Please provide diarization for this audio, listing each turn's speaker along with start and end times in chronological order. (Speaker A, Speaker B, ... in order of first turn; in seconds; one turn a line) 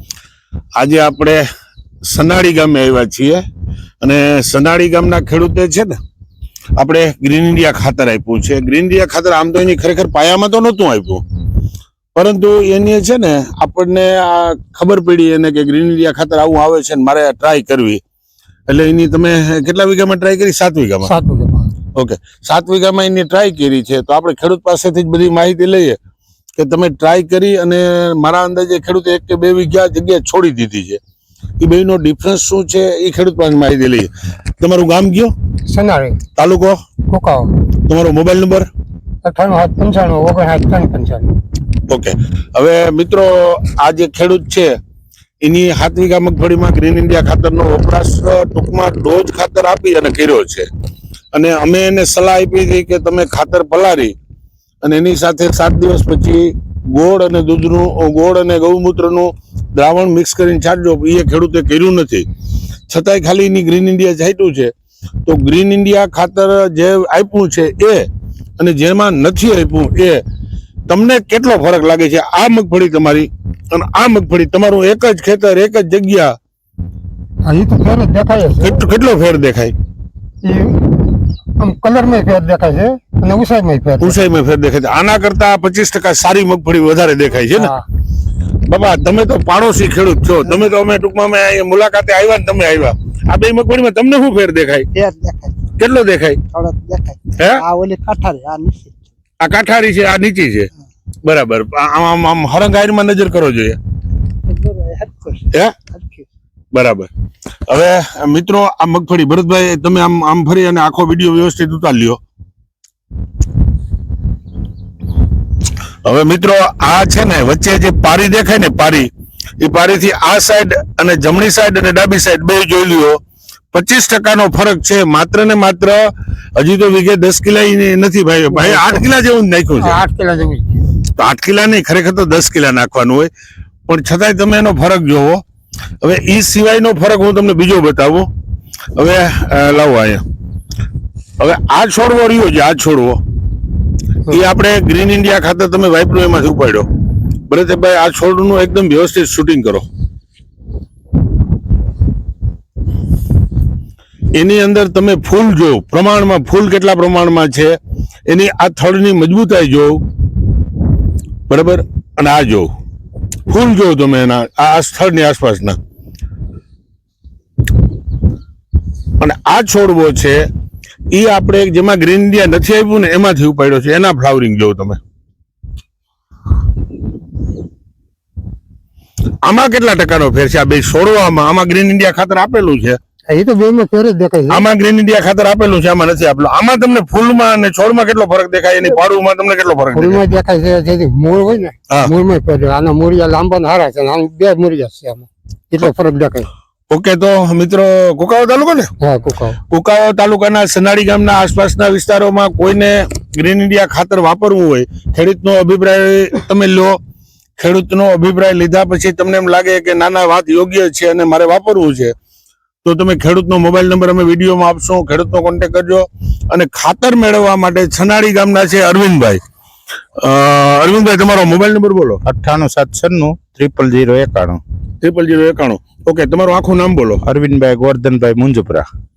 Speaker A: 0.8-1.4
Speaker A: 2.0-3.4
Speaker A: 4.0-6.0
Speaker A: 6.8-11.2
Speaker A: 12.1-18.0
Speaker A: 18.7-21.1
Speaker B: 21.0-21.7
Speaker A: 21.9-26.0
Speaker A: 26.6-31.0
Speaker A: 31.6-35.3
Speaker B: 35.7-36.2
Speaker A: 36.4-36.8
Speaker B: 37.1-37.5
Speaker A: 37.8-38.7
Speaker B: 39.2-41.3
Speaker A: 41.9-44.8
Speaker A: 45.4-50.7
Speaker A: 51.3-54.1
Speaker A: 54.8-62.3
Speaker A: 62.9-64.7
Speaker A: 65.2-68.1
Speaker A: 68.6-70.2
Speaker A: 70.9-76.3
Speaker B: 77.5-78.8
Speaker A: 78.6-79.7
Speaker B: 80.4-84.2
Speaker A: 84.0-87.7
Speaker B: 87.5-87.8
Speaker A: 88.7-94.9
Speaker C: 94.9-95.7
Speaker A: 95.8-96.4
Speaker C: 96.5-99.1
Speaker A: 97.4-97.6
Speaker A: 99.4-100.7
Speaker A: 101.2-103.8
Speaker C: 104.5-106.3
Speaker A: 106.7-107.1
Speaker A: 107.7-112.2
Speaker A: 116.0-123.2
Speaker A: 123.7-130.0
Speaker B: 128.5-129.0
Speaker B: 129.8-130.8
Speaker A: 131.1-133.3
Speaker A: 133.9-135.4
Speaker A: 136.0-138.3
Speaker A: 138.9-140.2
Speaker A: 141.4-143.2
Speaker A: 144.3-146.9
Speaker A: 147.5-149.8
Speaker A: 154.3-160.0
Speaker A: 161.5-162.7
Speaker A: 163.5-165.8
Speaker A: 169.2-170.4
Speaker A: 171.1-175.0
Speaker A: 179.4-183.0
Speaker B: 183.3-184.6
Speaker A: 184.5-190.2
Speaker B: 189.9-196.5
Speaker A: 196.9-198.9
Speaker B: 199.0-199.6
Speaker A: 199.7-207.0
Speaker A: 207.6-212.1
Speaker A: 212.8-219.4
Speaker A: 220.2-222.2
Speaker D: 222.2-224.6
Speaker A: 225.0-227.2
Speaker D: 227.2-228.9